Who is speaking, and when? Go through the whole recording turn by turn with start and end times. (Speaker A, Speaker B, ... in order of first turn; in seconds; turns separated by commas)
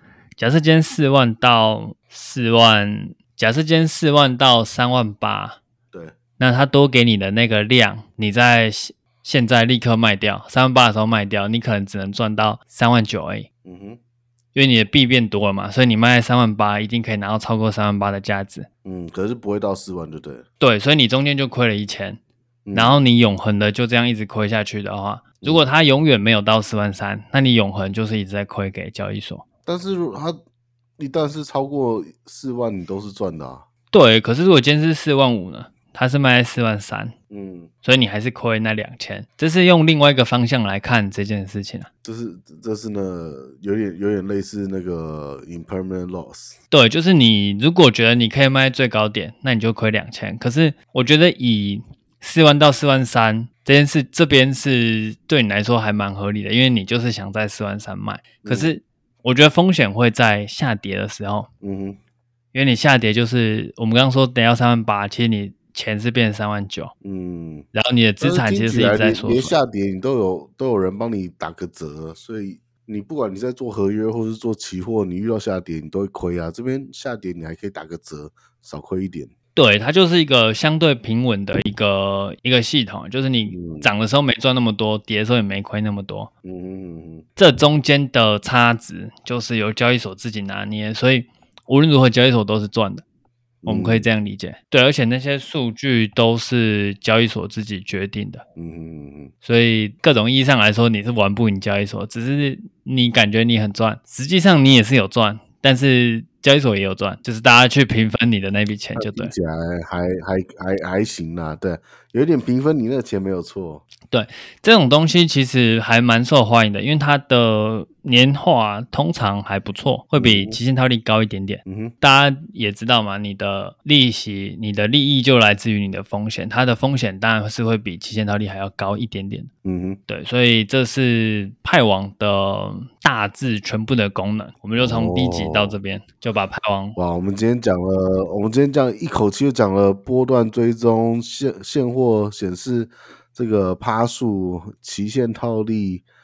Speaker A: 0.4-5.6, Speaker A: 6.4-13.5, Speaker B: 13.7-14.0, Speaker A: 14.6-18.7, Speaker B: 18.9-20.4, Speaker A: 20.6-22.2, Speaker B: 22.7-23.0, Speaker A: 22.7-29.4, Speaker B: 25.4-25.7, Speaker B: 29.7-30.4, Speaker B: 31.0-33.7, Speaker A: 33.9-37.1, Speaker B: 37.3-37.7, Speaker A: 37.8-41.9, Speaker B: 42.0-46.6, Speaker A: 46.7-61.5, Speaker B: 58.4-58.8, Speaker B: 61.6-62.0, Speaker A: 62.5-66.9, Speaker B: 67.0-67.7, Speaker A: 67.7-69.6, Speaker B: 68.2-79.3, Speaker A: 79.6-86.3, Speaker B: 83.5-83.9, Speaker B: 86.5-87.2, Speaker A: 87.4-93.0, Speaker B: 93.6-94.1, Speaker A: 93.7-98.4, Speaker B: 98.6-99.3, Speaker A: 99.4-109.3, Speaker B: 109.0-113.8, Speaker A: 114.1-129.5, Speaker B: 120.2-120.6, Speaker B: 121.7-121.9, Speaker B: 129.7-130.0, Speaker A: 130.1-137.0, Speaker B: 134.8-135.8, Speaker B: 137.0-146.1